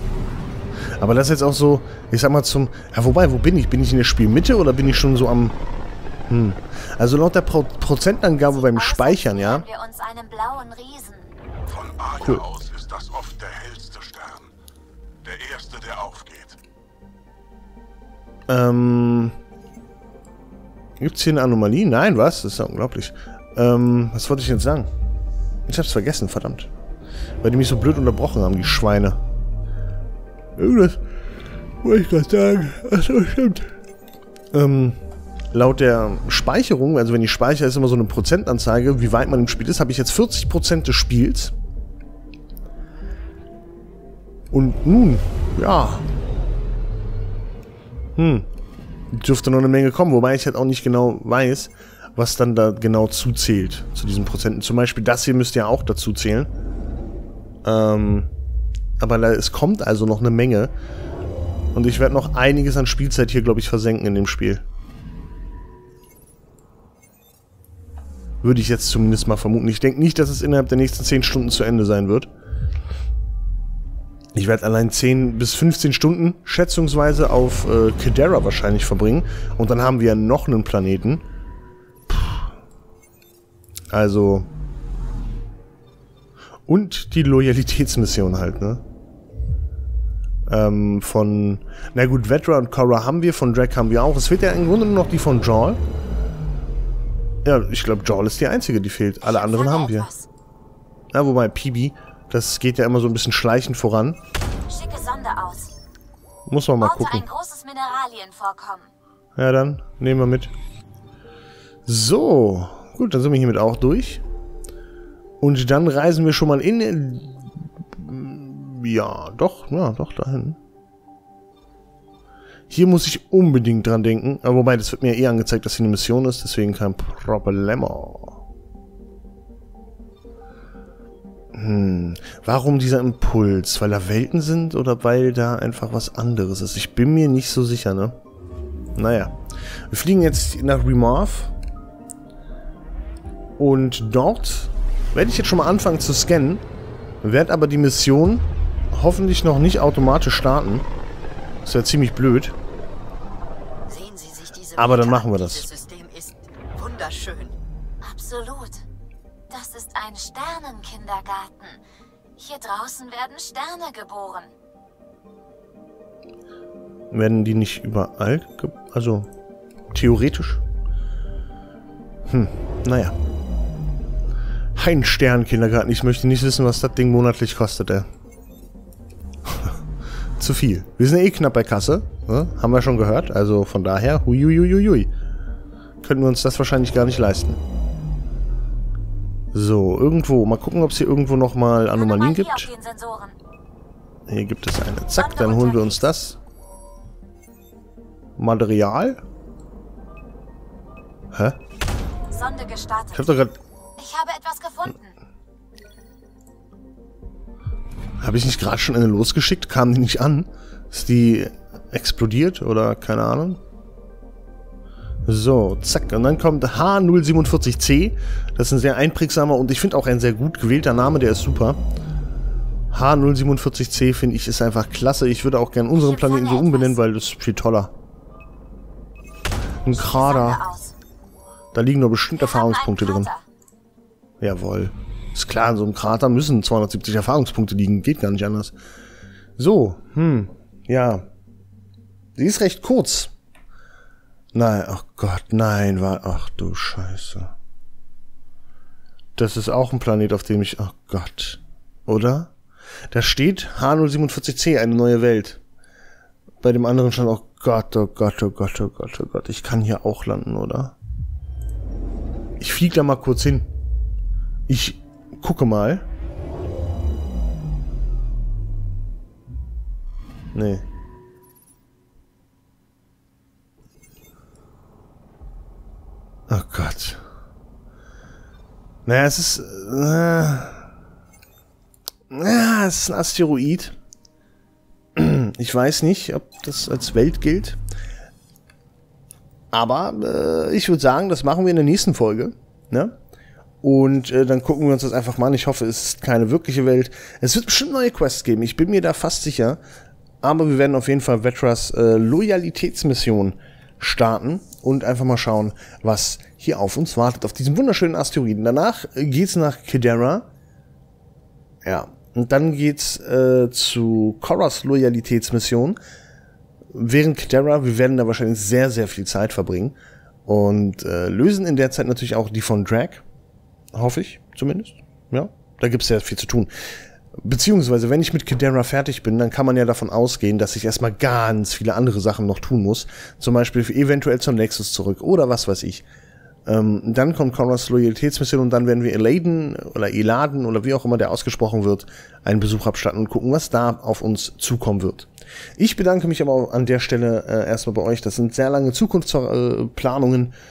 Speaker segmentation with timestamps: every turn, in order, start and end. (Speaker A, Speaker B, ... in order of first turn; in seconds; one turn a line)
Speaker A: 1.0-5.6
Speaker A: 6.3-9.7
Speaker B: 8.4-11.3
Speaker C: 11.7-14.5
Speaker A: 12.2-12.5
Speaker C: 15.2-16.6
Speaker A: 18.5-19.4
Speaker A: 21.0-24.9
Speaker A: 25.7-26.7
Speaker A: 27.4-29.2
Speaker A: 30.6-31.0
Speaker A: 31.8-33.7
Speaker A: 34.5-35.0
Speaker A: 35.5-41.5
Speaker A: 44.5-46.1
Speaker A: 48.2-48.5
Speaker A: 49.1-56.5
Speaker A: 57.6-58.3
Speaker A: 59.0-60.7
Speaker A: 61.7-64.6
Speaker A: 68.4-72.3
Speaker A: 74.3-81.2
Speaker A: 82.1-82.5
Speaker A: 83.9-84.5
Speaker A: 86.7-88.8
Speaker A: 90.5-95.8
Speaker A: 97.4-100.1
Speaker B: 99.2-100.3
Speaker A: 101.1-104.2
Speaker B: 104.7-105.7
Speaker A: 106.5-107.3
Speaker B: 106.8-108.9
Speaker A: 109.4-110.5
Speaker A: 111.9-114.2
Speaker A: 115.4-120.6
Speaker A: 122.7-128.4
Speaker A: 131.5-138.2
Speaker A: 139.0-139.4
Speaker A: 139.9-141.5
Speaker A: 143.6-146.6
Speaker A: 147.2-150.9
Speaker A: 151.6-152.6
Speaker D: 153.9-157.6
Speaker A: 154.8-155.7
Speaker B: 158.0-158.8
Speaker B: 159.5-161.8
Speaker B: 162.4-164.5
Speaker A: 167.1-169.3
Speaker A: 169.9-170.6
Speaker A: 172.3-173.2
Speaker A: 174.8-178.1
Speaker A: 179.5-179.8
Speaker A: 180.4-185.1
Speaker A: 186.0-187.6
Speaker A: 189.5-192.7
Speaker B: 191.9-193.4
Speaker A: 194.3-196.4
Speaker B: 195.1-196.1
Speaker A: 198.4-199.2
Speaker A: 201.3-201.6
Speaker B: 202.3-203.4
Speaker A: 203.1-203.6
Speaker B: 204.0-205.1
Speaker A: 208.2-213.6
Speaker A: 215.3-221.8
Speaker A: 222.9-227.9
Speaker B: 225.9-227.0
Speaker A: 229.8-230.7
Speaker B: 229.9-230.9
Speaker A: 231.7-233.3
Speaker B: 232.3-233.4
Speaker A: 234.4-238.8
Speaker A: 239.6-241.3
Speaker A: 242.4-243.3
Speaker A: 244.5-247.5
Speaker A: 249.4-252.5
Speaker A: 253.1-255.6
Speaker A: 256.6-261.0
Speaker A: 262.6-263.7
Speaker A: 264.7-266.1
Speaker A: 270.5-270.9
Speaker A: 276.5-277.2
Speaker A: 279.1-280.9
Speaker A: 282.3-283.9
Speaker A: 285.2-287.8
Speaker A: 289.7-293.1
Speaker A: 293.8-299.8
Speaker A: 300.4-310.5
Speaker A: 311.9-316.0
Speaker A: 316.9-323.2
Speaker A: 323.9-326.7
Speaker A: 327.4-336.0
Speaker A: 336.7-350.5